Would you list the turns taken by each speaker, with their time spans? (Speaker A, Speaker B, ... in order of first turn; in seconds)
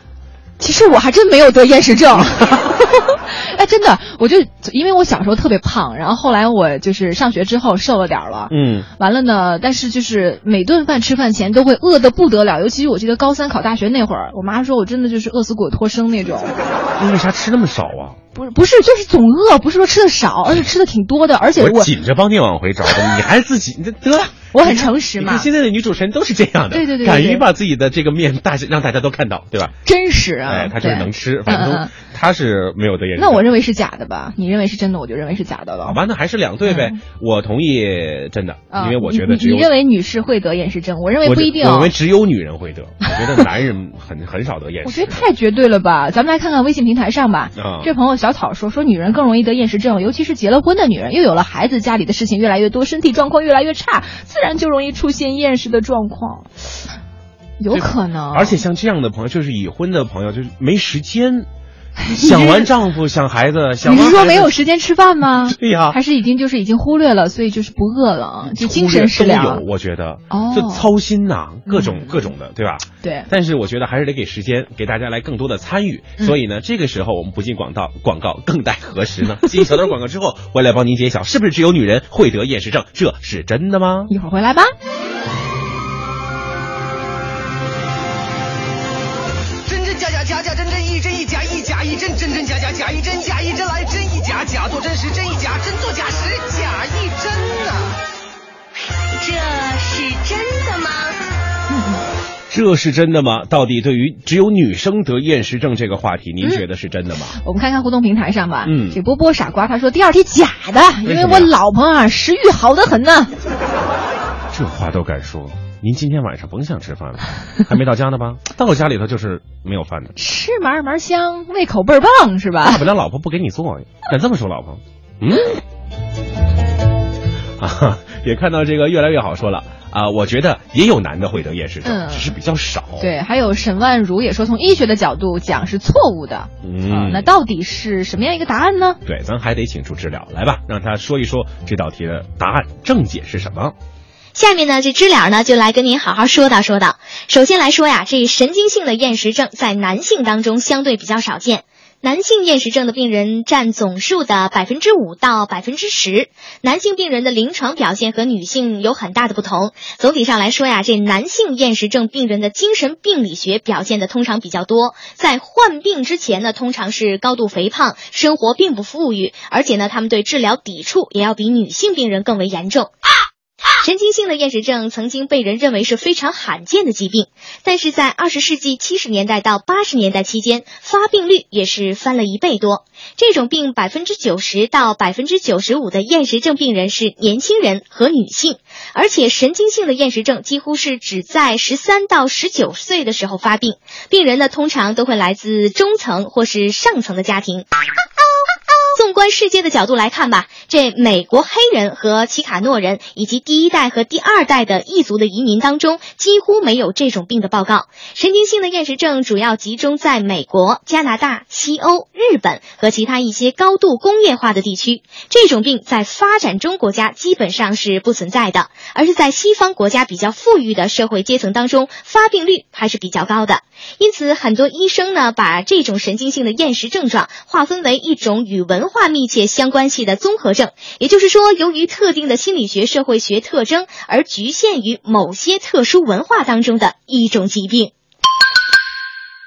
Speaker A: 0.6-16.5, 18.3-21.9, 24.5-25.5, 26.7-27.4, 29.8-31.9, 33.1-36.0, 36.6-37.0, 38.7-41.9, 44.8-56.6, 57.6-58.6, 62.0-62.7, 63.8-69.6, 70.3-70.9, 71.7-72.3, 73.0-73.3, 84.1-84.7, 101.7-102.0, 107.4-113.3, 120.2-122.8, 131.8-132.3, 133.0-139.0
Speaker B: 2.2-2.6, 8.5-8.9, 17.0-18.2, 21.6-29.7, 30.4-33.5, 35.8-39.7, 41.2-45.2, 47.5-47.9, 57.7-61.5, 62.0-64.5, 65.5-66.0, 68.4-84.1, 102.5-107.3, 108.6-109.0, 111.0-111.5, 114.5-120.2, 122.6-125.6, 127.6-133.0, 136.6-137.3, 139.0-143.7
Speaker C: 89.7-98.0
Speaker D: 99.2-101.2
Speaker E: 144.3-172.9, 173.8-197.7, 198.9-237.9